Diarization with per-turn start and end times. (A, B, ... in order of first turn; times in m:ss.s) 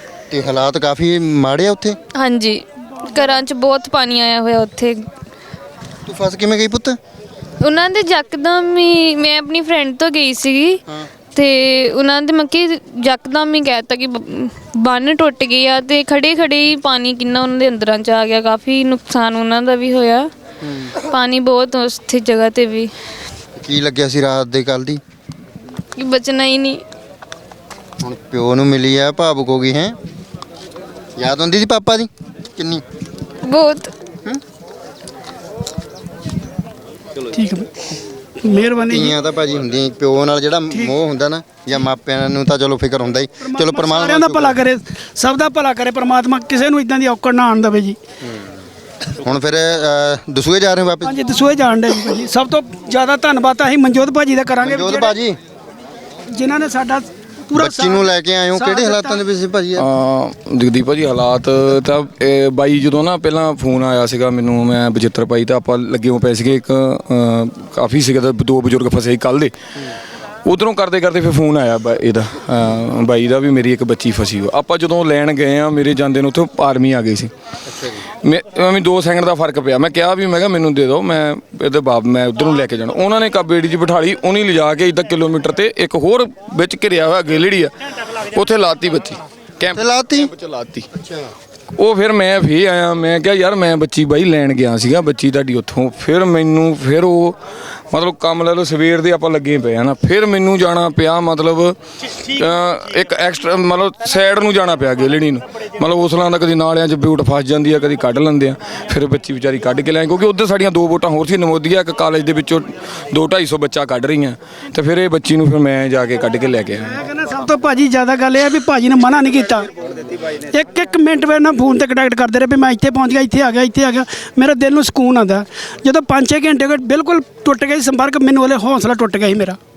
0:00.3-0:02.0 A
0:02.2-0:05.1 B
0:06.1-0:07.0 A
0:07.6-0:10.8 B
0:11.3-0:20.3 B
0:20.6-0:20.9 A
0:21.0-0:22.9 B
0:23.6-0:25.0 A
0:26.0-0:26.8 B
0:28.0-0:30.0 A
0:31.2-0:32.8 A
0:33.4-0:33.9 B
0:37.2-0:37.9 C
0:38.4-0:39.1 C
0:38.9-0:44.6 A
0:43.4-0:48.0 C
0:49.2-0:51.2 A
0:51.0-0:55.2 C
0:54.6-0:55.4 A
0:56.3-0:59.2 C
0:57.6-0:59.9 A
0:59.8-1:09.5 D
1:10.4-1:17.3 D
1:17.7-1:18.0 A
1:18.2-1:30.9 D
1:29.7-1:30.3 A
1:30.9-1:31.3 A
1:31.8-1:37.4 D
1:37.9-1:57.0 D
1:56.9-1:59.7 C
2:00.4-2:09.6 C